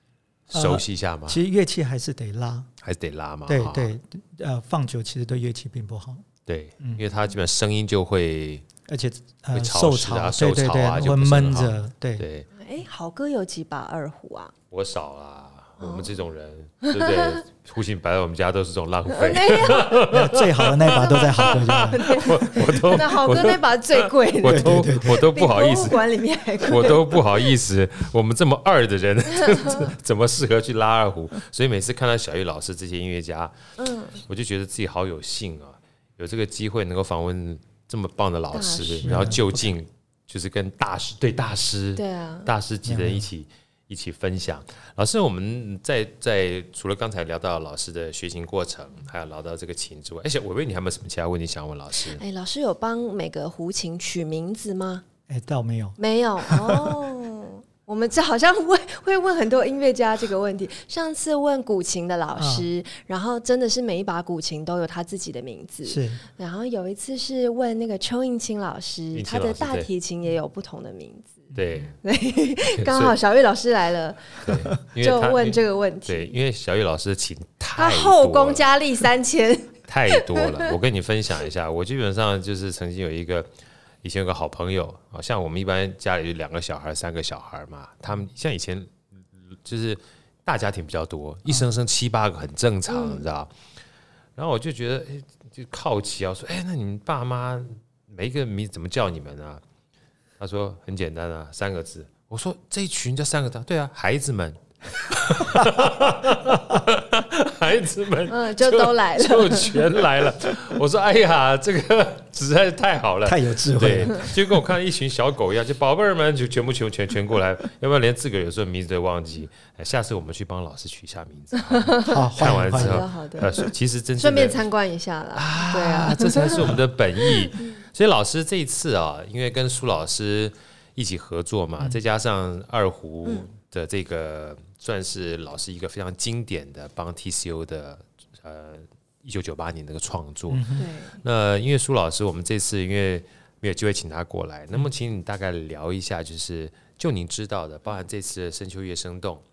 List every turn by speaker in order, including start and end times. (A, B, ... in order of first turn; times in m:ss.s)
0:00.5-0:01.4 A
0:00.5-0:02.7 B
0:02.8-0:03.9 A
0:03.5-0:06.2 B
0:06.5-0:08.7 A
0:08.8-0:12.2 B
0:09.5-0:12.5 A
0:12.5-0:14.5 C
0:14.7-0:26.0 A
0:15.8-0:16.2 C
0:16.9-0:17.4 C
0:19.1-0:20.0 C
0:20.1-0:22.4 B
0:21.1-0:27.5 C
0:24.4-0:25.2 B
0:26.6-0:33.6 A
0:29.5-0:29.9 C
0:33.8-0:34.2 C
0:34.2-0:52.2 A
0:38.5-0:39.3 C
0:39.0-0:39.6 B
0:42.0-0:42.5 C
0:42.9-0:43.3 B
0:52.1-0:55.0 C
0:55.3-0:57.0 B
0:56.0-1:11.5 C
1:02.4-1:02.7 B
1:05.8-1:06.2 B
1:09.1-1:09.9 A
1:11.5-1:11.9 B
1:11.6-1:11.9 A
1:12.0-1:16.4 C
1:12.6-1:13.2 A
1:14.4-1:18.6 A
1:17.8-1:20.8 C
1:19.9-1:23.5 A
1:24.0-1:29.0 A
1:29.6-1:33.5 A
1:32.9-1:33.2 C
1:34.4-1:39.6 A
1:40.4-2:04.6 A
1:45.6-1:45.9 B
1:48.3-1:49.9 C
1:53.2-1:54.6 B
2:01.6-2:07.8 C
2:02.1-2:03.1 B
2:05.3-2:29.4 A
2:20.5-2:20.9 B
2:20.8-2:21.2 C